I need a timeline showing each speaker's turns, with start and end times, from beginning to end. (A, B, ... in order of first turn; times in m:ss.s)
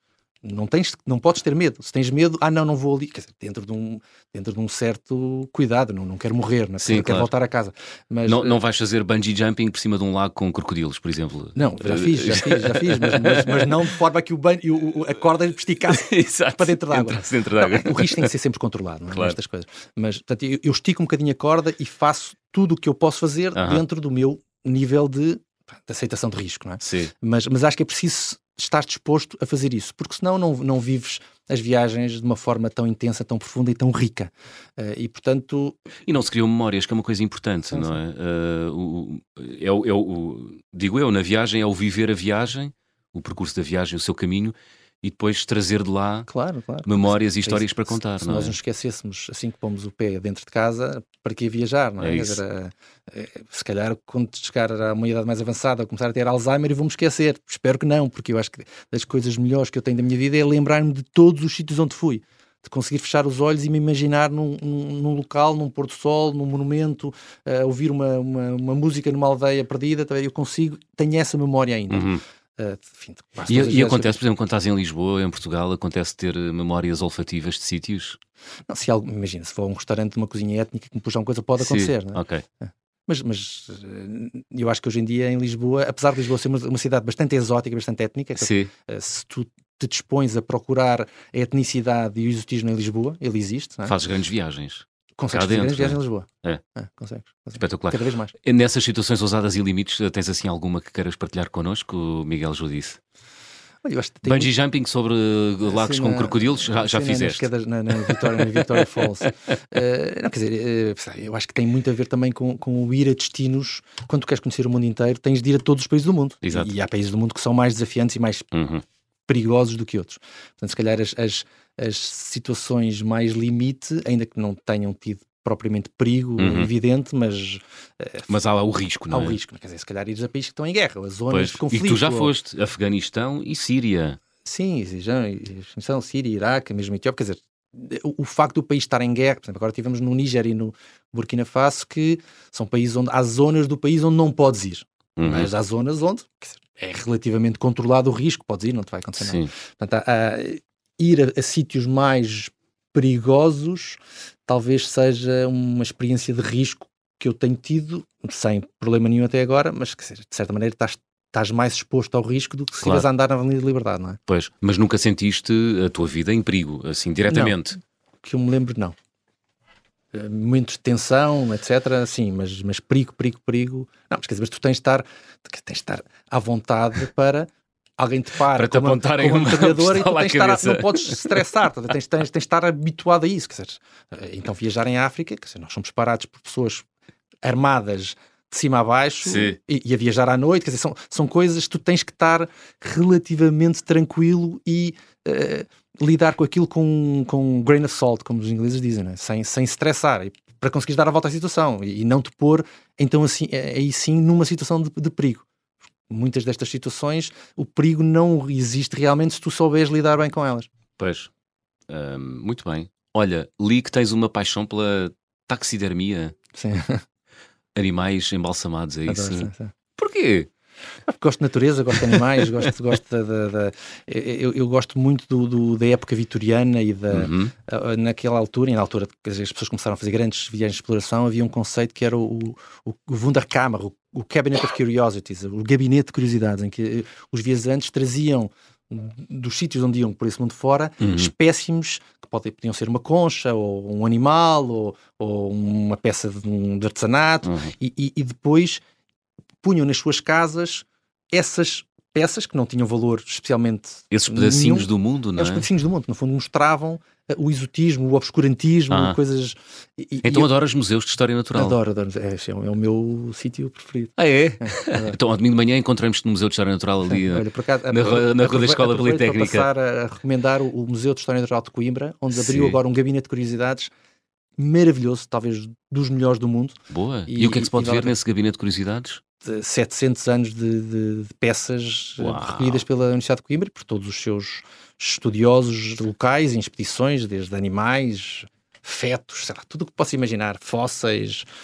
0:00.4-0:08.6 A
0:06.8-0:07.3 B
0:08.2-0:13.9 B
0:11.5-0:35.8 A
0:15.8-0:18.3 B
0:19.1-0:19.4 B
0:23.5-0:23.8 B
0:26.8-0:27.1 B
0:36.0-0:46.3 B
0:46.3-1:14.2 A
0:46.8-0:48.6 B
0:52.0-0:52.4 B
1:11.9-1:12.2 B
1:13.5-1:18.2 B
1:18.7-1:33.9 A
1:21.6-1:22.4 B
1:28.4-1:28.7 B
1:33.8-1:36.6 B
1:35.2-1:38.3 A
1:37.6-1:43.0 B
1:43.8-1:44.5 A
1:44.2-1:49.0 B
1:45.7-1:58.5 A
1:56.4-1:56.7 B
1:58.5-1:58.8 B
1:59.3-2:08.3 A
2:06.4-2:06.7 B
2:08.3-2:09.4 B
2:09.1-2:12.3 A
2:11.3-2:14.2 B
2:14.4-2:44.2 A
2:25.2-2:25.5 B
2:29.2-2:29.5 B
2:42.8-2:43.1 B
2:44.3-2:47.8 B
2:47.3-2:47.5 A
2:48.2-2:49.0 A
2:50.1-3:06.8 A
2:58.5-3:01.4 B
3:07.4-3:25.4 A
3:09.2-3:09.6 B
3:26.1-3:30.7 A
3:31.0-3:31.3 B
3:31.9-3:36.3 B
3:36.5-3:37.0 A
3:37.7-3:40.5 B
3:39.1-3:39.7 A
3:41.1-4:08.8 A
3:47.1-3:47.5 B
4:01.0-4:01.3 B
4:07.4-4:07.7 B
4:09.6-4:20.5 A
4:14.1-4:15.7 B
4:18.9-4:19.2 B
4:20.2-4:21.8 B
4:21.5-4:25.2 A
4:24.2-4:29.7 B
4:27.1-4:33.9 A
4:32.3-4:32.8 B
4:34.6-4:38.2 A
4:36.9-4:39.2 B
4:39.4-4:51.4 A
4:42.2-4:42.8 B